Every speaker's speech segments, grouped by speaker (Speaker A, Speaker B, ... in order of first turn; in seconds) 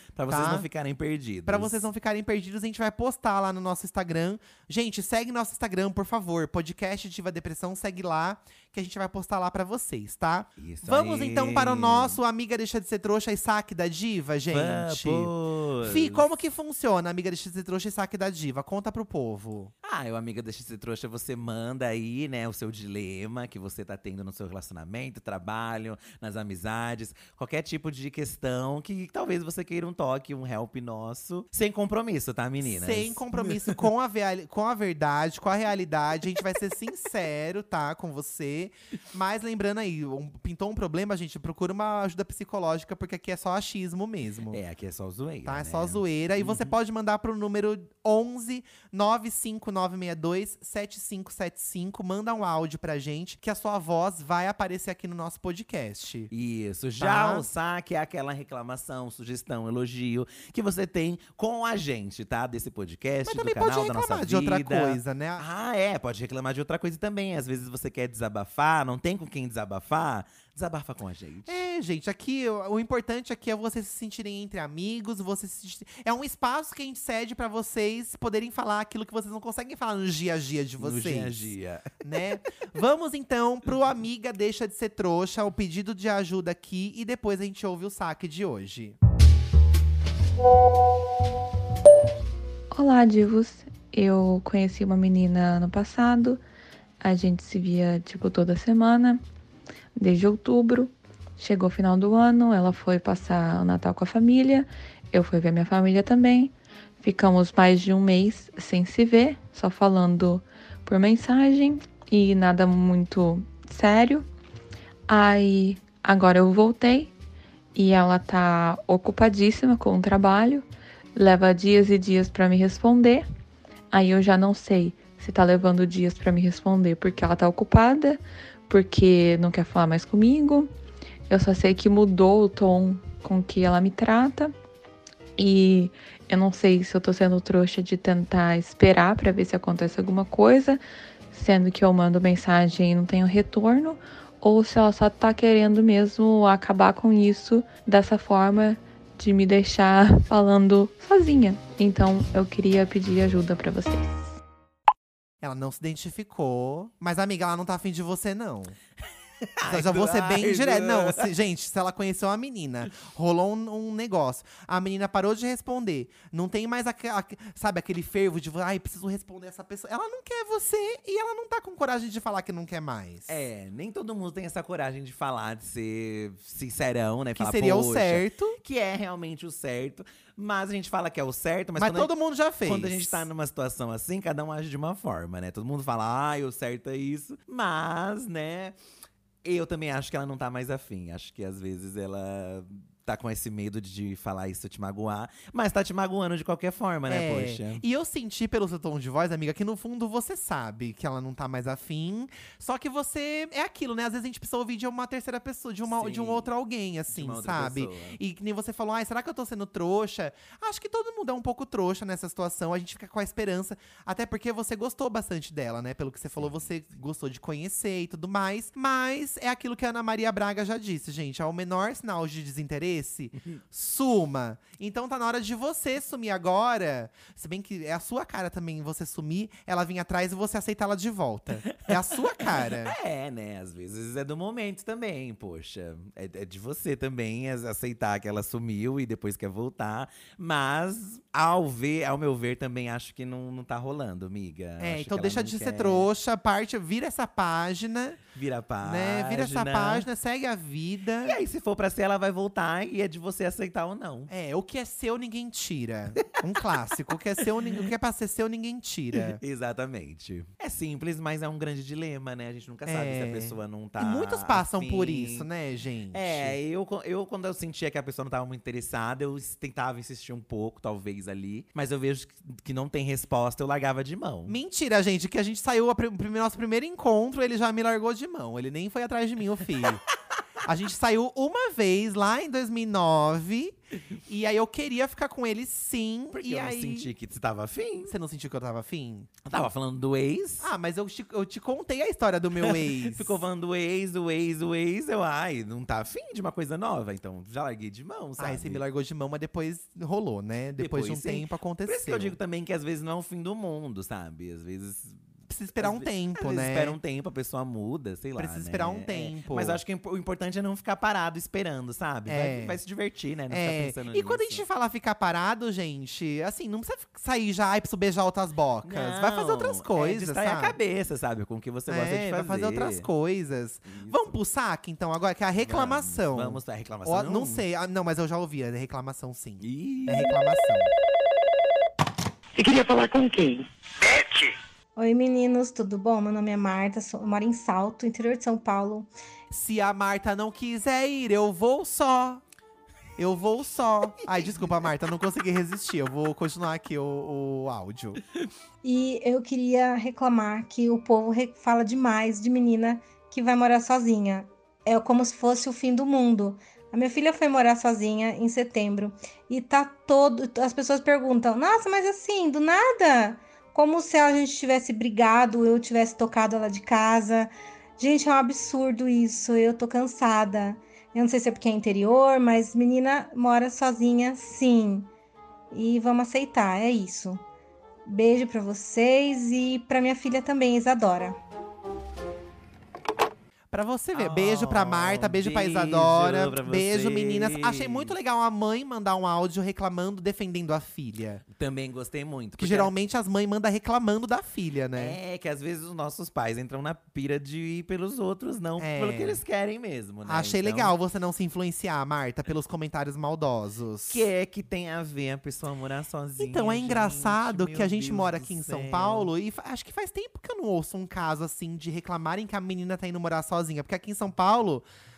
Speaker A: 0.1-1.8, 10.6-12.2, 14.5-16.2, 19.8-33.8, 44.5-46.7, 56.3-71.6, 80.8-82.0, 159.5-161.3, 173.3-188.8, 189.4-197.8, 205.9-206.5, 207.1-208.2, 216.4-216.7, 231.8-246.1, 248.3-250.1, 251.2-254.3, 259.1-265.5, 266.1-274.6, 286.3-288.1, 289.4-290.7, 292.6-298.8, 300.8-305.2, 305.7-314.6, 318.8-323.1, 323.9-324.4, 325.6-327.6, 329.6-330.4, 344.2-344.6, 384.1-388.1, 391.4-392.9, 394.9-400.9, 404.1-409.3
Speaker B: 0.3-0.7, 1.4-15.3, 15.8-19.7, 32.6-44.6, 45.5-56.3, 57.0-57.5, 63.2-65.4, 71.5-89.0, 155.4-158.8, 159.6-173.3, 177.3-178.6, 181.8-183.3, 197.1-232.9, 244.8-248.2, 248.8-251.4, 254.3-259.4, 262.9-266.6, 274.5-280.0, 280.6-283.7, 284.2-287.1, 288.0-289.3, 290.6-293.4, 298.4-302.4, 305.5-307.0, 308.4-309.8, 312.3-312.8, 313.5-320.8, 321.9-330.9, 339.5-342.4, 343.2-348.2, 383.7-391.4, 392.6-395.2, 398.8-399.4, 400.2-404.2, 406.4-414.8
Speaker C: 92.7-96.4, 97.0-99.2, 100.0-114.2, 115.1-117.1, 117.7-123.2, 123.9-130.7, 131.3-134.5, 135.4-140.8, 141.3-154.0
Speaker D: 332.6-334.5
Speaker E: 335.0-339.1, 348.8-375.1, 375.7-377.4, 378.0-381.4